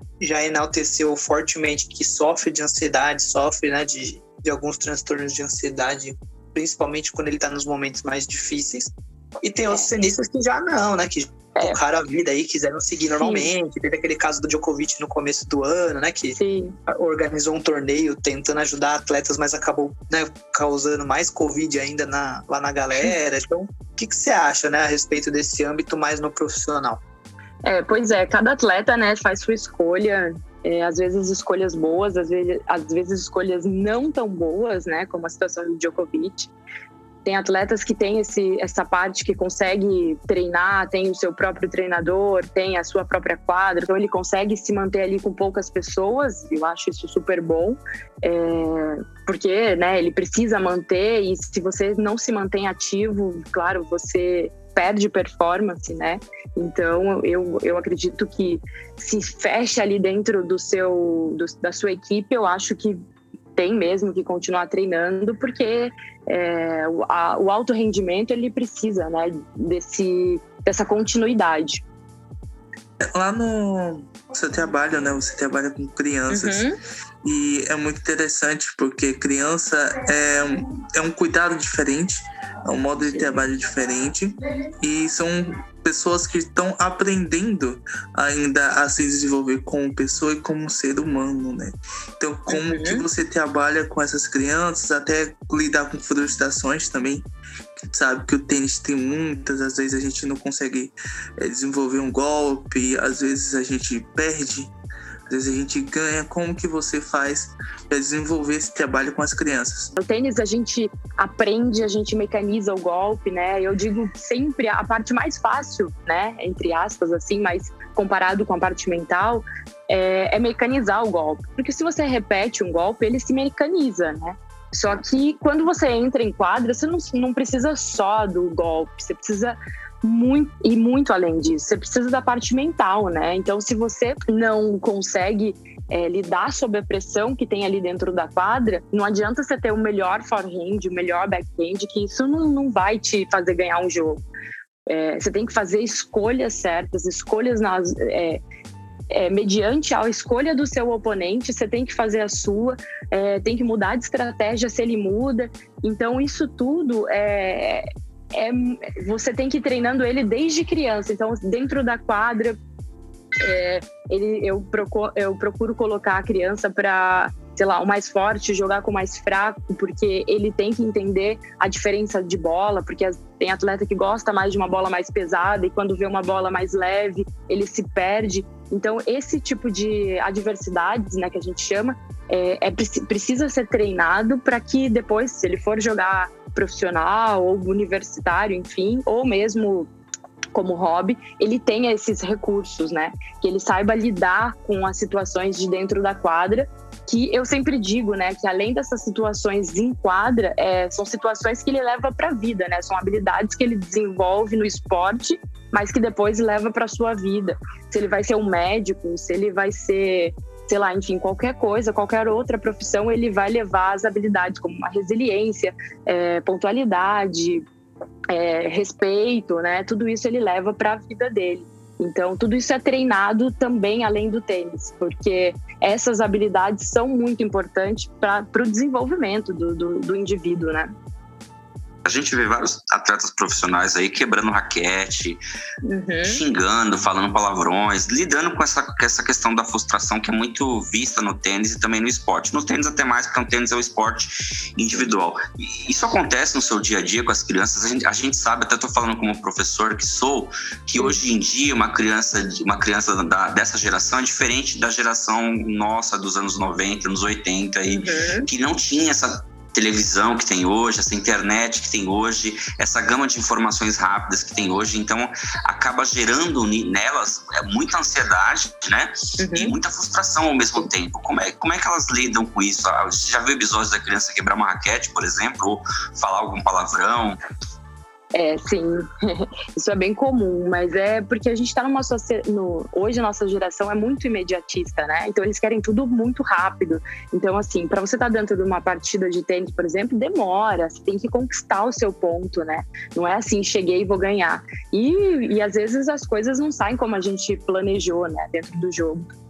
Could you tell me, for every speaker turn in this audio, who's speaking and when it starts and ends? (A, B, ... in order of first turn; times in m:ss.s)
0:00.2-0:27.0 A
0:13.2-0:13.5 B
0:16.4-0:16.8 B
0:27.6-0:36.5 B
0:37.2-1:03.0 B
1:03.6-1:11.8 B
1:13.2-1:16.7 C
1:16.3-1:16.8 B
1:17.2-1:44.7 C
1:23.0-1:23.4 B
1:32.5-1:33.0 B
1:45.3-1:49.9 C
1:50.0-2:24.2 B
2:24.9-2:28.4 B
2:29.1-2:42.6 B
2:43.4-3:09.9 B
3:10.5-3:37.6 B
3:38.3-3:50.9 B
3:52.0-3:55.4 D
3:55.8-3:56.4 B
3:56.2-4:37.4 D
4:17.9-4:18.5 B
4:29.4-4:29.8 B
4:38.3-4:59.3 B